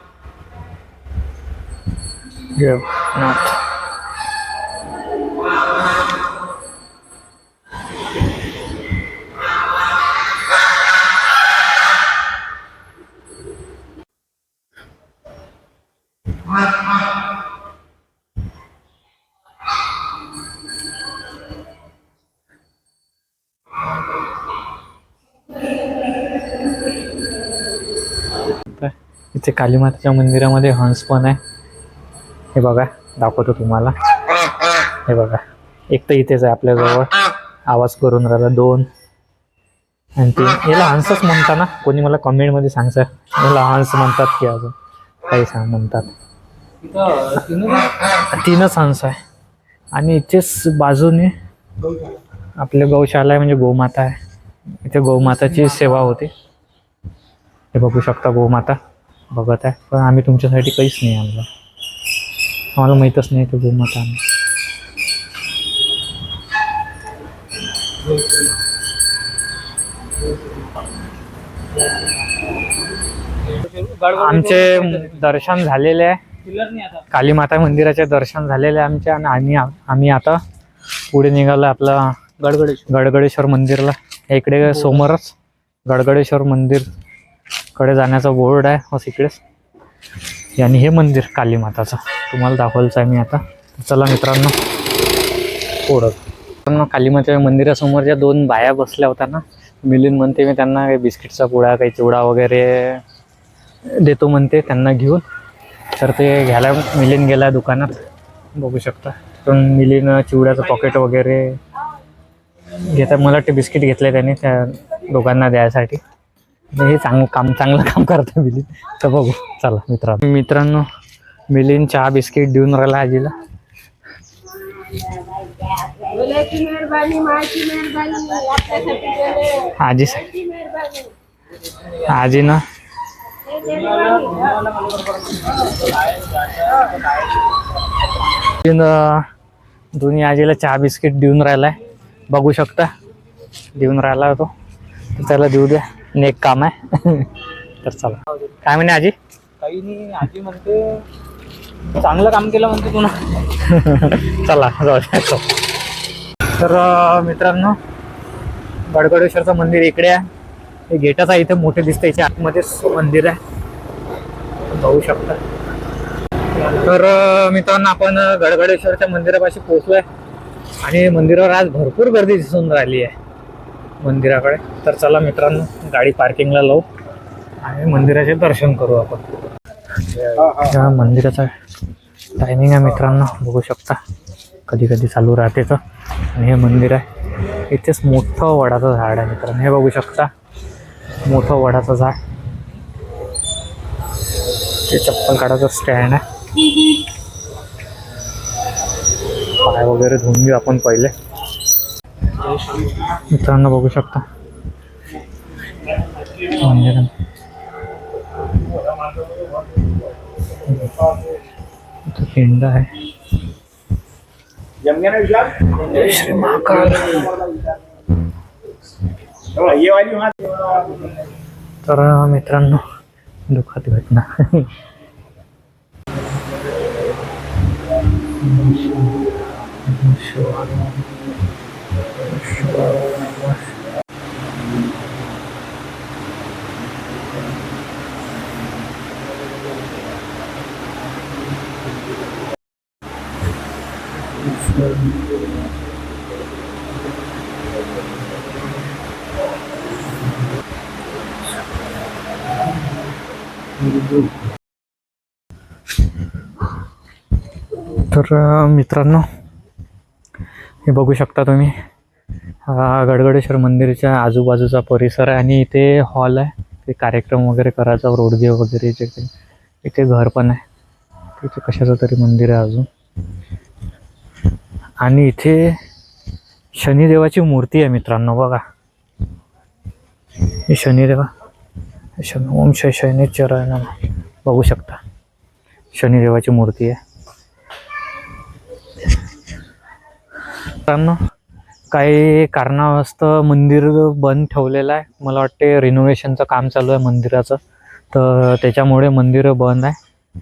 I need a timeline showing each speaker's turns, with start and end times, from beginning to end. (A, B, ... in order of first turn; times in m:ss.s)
0:02.5-0:03.6 A
0:28.7-0:31.4 A
0:32.6-0:33.9 A
0:35.1-0:37.2 A
0:37.7-0:38.9 A
0:40.2-0:44.7 A
0:45.3-0:46.1 A
0:46.8-0:47.9 B
0:48.0-0:49.2 A
0:49.9-0:51.3 A
0:52.6-0:54.2 A
0:54.8-0:56.3 A
0:57.7-0:58.8 A
0:59.3-1:01.5 A
1:02.8-1:04.2 A
1:13.5-1:15.3 B
1:14.1-1:16.2 A
1:16.5-1:17.0 B
1:17.1-1:20.4 A
1:21.1-1:26.9 A
1:22.5-1:22.9 B
1:27.8-1:29.4 A
1:30.6-1:34.6 A
1:35.9-1:43.0 A
1:43.9-1:45.2 A
1:46.0-1:48.0 A
1:48.6-1:51.6 A
1:52.9-1:56.0 A
1:56.8-2:00.9 A
2:01.5-2:03.3 A
2:05.4-2:09.6 C
2:09.6-2:10.6 A
2:10.6-2:11.0 C
2:11.9-2:12.6 A
2:13.6-2:16.9 B
2:18.5-2:19.3 A
2:20.0-2:21.8 A
2:22.3-2:22.9 A
2:23.7-2:24.5 A
2:25.2-2:29.2 A
2:29.6-2:31.0 B
2:32.0-2:33.4 B
2:33.4-2:35.5 A
2:36.6-2:37.8 A
2:38.9-2:40.2 A
2:40.9-2:43.4 A
2:44.7-2:45.4 A
2:46.6-2:50.1 A
2:50.8-2:53.1 A
2:54.0-2:56.8 A
2:57.6-2:59.3 A
3:00.3-3:01.5 A
3:02.4-3:04.0 A
3:04.7-3:05.8 A
3:06.3-3:07.0 A
3:07.7-3:10.3 A
3:11.2-3:12.2 A
3:14.9-3:16.2 A
3:19.6-3:21.1 A
3:23.1-3:24.2 A
3:26.4-3:27.1 A
3:30.6-3:31.1 A
3:32.1-3:33.0 A
3:34.9-3:35.4 B
3:35.7-3:37.4 A
3:39.6-3:40.6 B
3:41.8-3:42.8 A
3:43.5-3:44.7 A
3:48.4-3:49.2 A
3:49.9-3:51.1 A
3:52.2-3:53.6 A
4:17.9-4:19.3 A
4:20.9-4:21.7 A
4:22.7-4:29.3 A
4:29.8-4:30.6 A
4:31.4-4:32.9 A
4:35.0-4:35.8 A
4:36.8-4:38.6 A
4:40.7-4:41.3 A
4:42.2-4:45.0 A
4:45.9-4:47.0 A
4:50.8-4:51.2 A
4:51.9-4:57.6 A
4:58.1-5:00.0 A